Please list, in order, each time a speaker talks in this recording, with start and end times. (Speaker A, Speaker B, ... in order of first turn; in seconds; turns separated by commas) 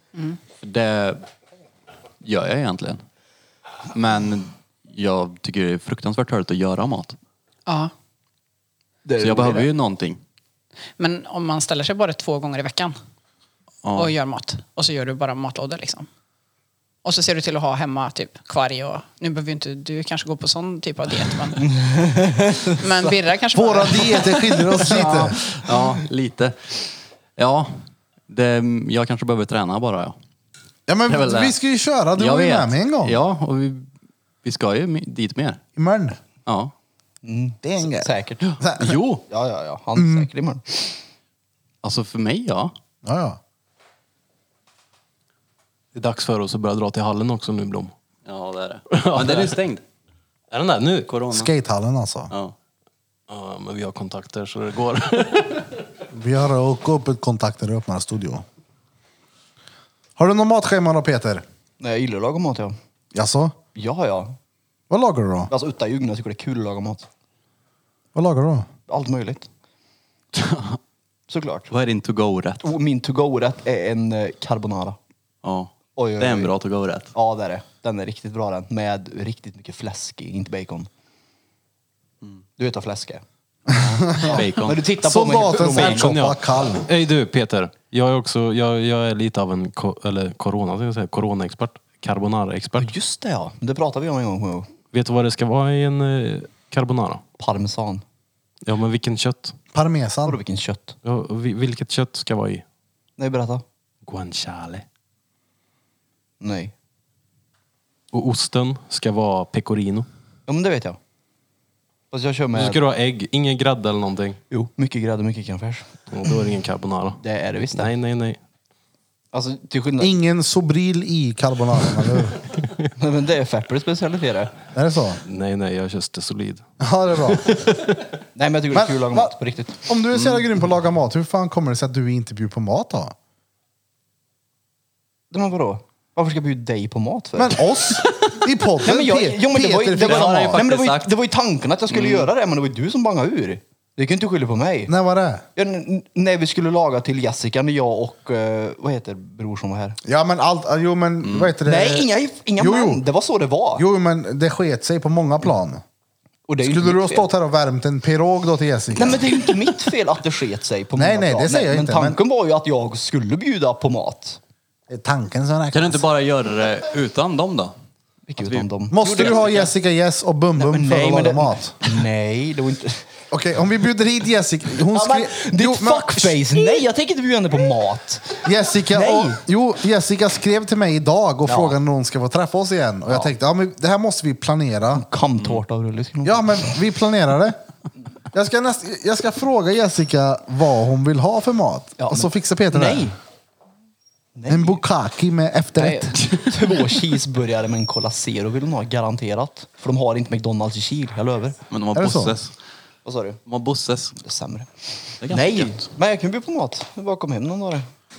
Speaker A: 0.6-1.2, Speaker A: 2.2-3.0, Speaker A: 3.9-7.2, Speaker B: 7.7-7.9, Speaker C: 9.1-9.7, Speaker A: 9.2-10.2, Speaker B: 11.0-12.9, Speaker A: 13.8-14.1, Speaker B: 13.9-16.1, Speaker B: 17.0-21.7, Speaker C: 21.6-23.1, Speaker B: 22.8-25.2, Speaker D: 23.5-25.4, Speaker A: 24.9-26.8, Speaker A: 27.4-30.2, Speaker D: 30.9-33.2, Speaker A: 31.1-31.6, Speaker A: 32.2-33.9, Speaker A: 34.4-35.6, Speaker D: 35.8-36.2, Speaker A: 36.5-36.7, Speaker C: 37.2-38.5, Speaker D: 37.6-39.0, Speaker A: 38.4-39.2, Speaker C: 39.3-40.9, Speaker D: 40.0-40.3, Speaker A: 41.8-42.7, Speaker D: 43.0-43.4, Speaker E: 45.9-47.9, Speaker A: 48.3-49.8, Speaker E: 48.9-49.6, Speaker E: 50.5-51.1, Speaker A: 51.1-51.5, Speaker D: 51.3-52.3, Speaker E: 53.3-55.7, Speaker D: 56.1-58.5, Speaker D: 60.2-61.4, Speaker C: 61.8-62.8, Speaker D: 63.1-63.6, Speaker C: 63.7-64.4, Speaker D: 64.9-65.5, Speaker C: 65.5-67.1, Speaker D: 68.2-68.7, Speaker C: 68.9-69.5, Speaker A: 70.3-70.8, Speaker C: 71.3-71.7, Speaker A: 71.7-72.6, Speaker C: 72.6-75.0, Speaker A: 75.4-77.1, Speaker C: 76.0-76.5, Speaker C: 77.1-80.9, Speaker C: 82.6-86.2, Speaker D: 83.7-84.4, Speaker A: 84.2-84.9, Speaker D: 85.0-86.9, Speaker E: 85.7-92.9, Speaker C: 92.8-94.7, Speaker E: 94.9-97.2, Speaker C: 97.4-98.0, Speaker E: 98.7-99.5, Speaker D: 99.7-100.4, Speaker C: 100.3-101.0, Speaker E: 101.0-102.6, Speaker C: 103.2-103.6, Speaker E: 104.0-104.8, Speaker C: 106.4-106.7, Speaker E: 108.1-110.1, Speaker C: 110.5-111.0, Speaker C: 112.1-112.8, Speaker E: 112.5-114.4, Speaker C: 114.5-116.1, Speaker E: 116.1-117.2, Speaker C: 117.2-117.9, Speaker E: 117.7-118.4, Speaker C: 119.3-120.1, Speaker D: 120.0-122.4, Speaker C: 123.0-124.5, Speaker D: 124.7-125.2, Speaker E: 125.2-126.6, Speaker D: 126.8-127.7, Speaker C: 128.3-129.8, Speaker D: 128.7-133.2, Speaker C: 135.3-138.0, Speaker D: 137.4-140.6, Speaker C: 138.8-144.9, Speaker A: 140.0-141.1, Speaker A: 141.9-142.3, Speaker D: 144.9-145.4, Speaker C: 145.6-150.0, Speaker D: 150.1-153.1, Speaker A: 151.2-151.5, Speaker C: 151.6-153.8, Speaker D: 153.8-155.8, Speaker C: 156.5-157.3, Speaker D: 156.6-159.3, Speaker C: 158.9-164.4, Speaker D: 160.9-162.2, Speaker D: 164.9-166.0, Speaker A: 165.7-167.7, Speaker C: 168.3-169.6, Speaker A: 168.4-169.7, Speaker D: 168.9-172.0, Speaker C: 170.6-173.1, Speaker D: 173.3-176.4, Speaker C: 174.9-179.4, Speaker D: 178.4-185.1, Speaker C: 181.5-181.8, Speaker C: 184.9-186.8, Speaker A: 185.4-185.6, Speaker D: 186.2-187.6, Speaker D: 188.3-193.1, Speaker C: 192.0-193.2, Speaker C: 194.3-194.8, Speaker D: 194.5-196.3, Speaker C: 195.8-201.6, Speaker A: 201.7-202.5, Speaker D: 201.9-202.4, Speaker C: 203.1-203.4, Speaker A: 203.5-204.2, Speaker C: 204.2-204.7, Speaker A: 205.2-205.9, Speaker C: 205.2-207.9